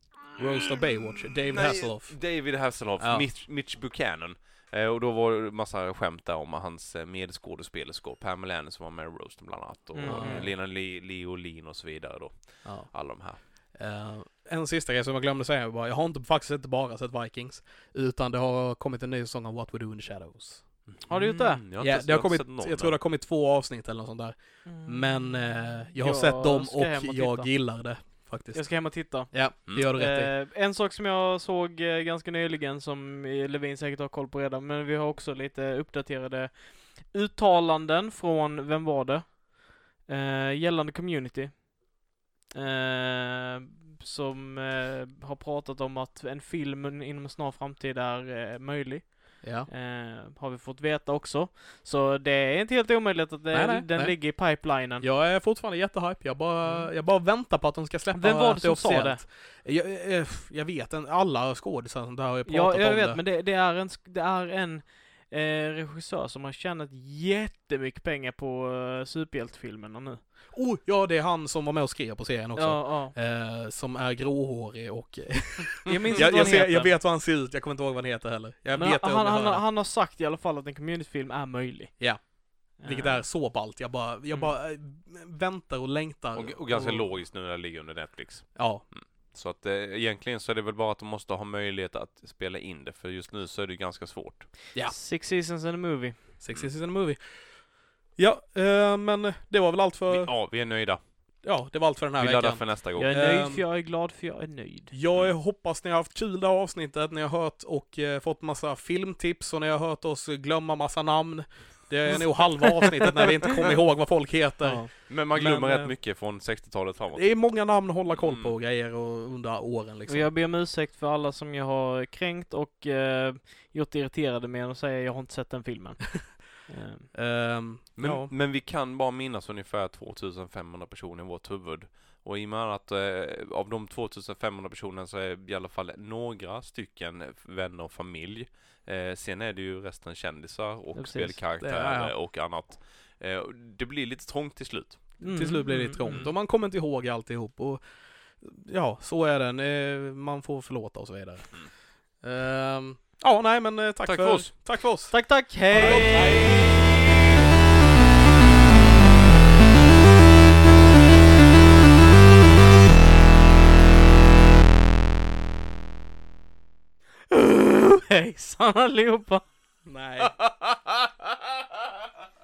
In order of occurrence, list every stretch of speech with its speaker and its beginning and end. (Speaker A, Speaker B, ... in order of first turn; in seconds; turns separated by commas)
Speaker A: 0.4-3.3, Speaker B: 1.5-13.4, Speaker C: 9.9-10.4, Speaker A: 10.0-10.6, Speaker A: 12.6-20.9, Speaker B: 20.9-23.0, Speaker C: 21.1-21.6, Speaker A: 21.7-30.3, Speaker C: 24.6-27.5, Speaker C: 28.5-55.0, Speaker B: 29.7-29.9, Speaker A: 49.4-49.7, Speaker A: 53.5-63.2, Speaker C: 56.6-56.9, Speaker C: 58.1-59.2, Speaker C: 62.5-70.2, Speaker A: 70.5-79.6, Speaker C: 72.6-73.1, Speaker C: 75.9-76.9, Speaker C: 78.8-83.6, Speaker A: 82.0-87.2, Speaker B: 86.3-94.5, Speaker A: 88.5-88.9, Speaker C: 94.8-96.2, Speaker A: 96.4-100.4, Speaker B: 100.1-101.1, Speaker A: 101.4-103.6, Speaker B: 102.2-103.2, Speaker C: 103.0-105.0, Speaker A: 104.9-116.0, Speaker C: 114.6-114.9, Speaker B: 115.1-117.5, Speaker A: 117.1-120.3, Speaker B: 118.1-118.5, Speaker C: 120.1-127.1, Speaker A: 127.1-128.3, Speaker B: 128.0-145.2, Speaker C: 140.9-141.4, Speaker A: 141.6-142.2, Speaker C: 145.2-146.3, Speaker A: 145.2-147.8, Speaker A: 148.4-157.0, Speaker B: 154.0-154.5, Speaker C: 155.1-156.6, Speaker B: 155.7-156.6, Speaker C: 167.3-169.4, Speaker A: 169.8-170.4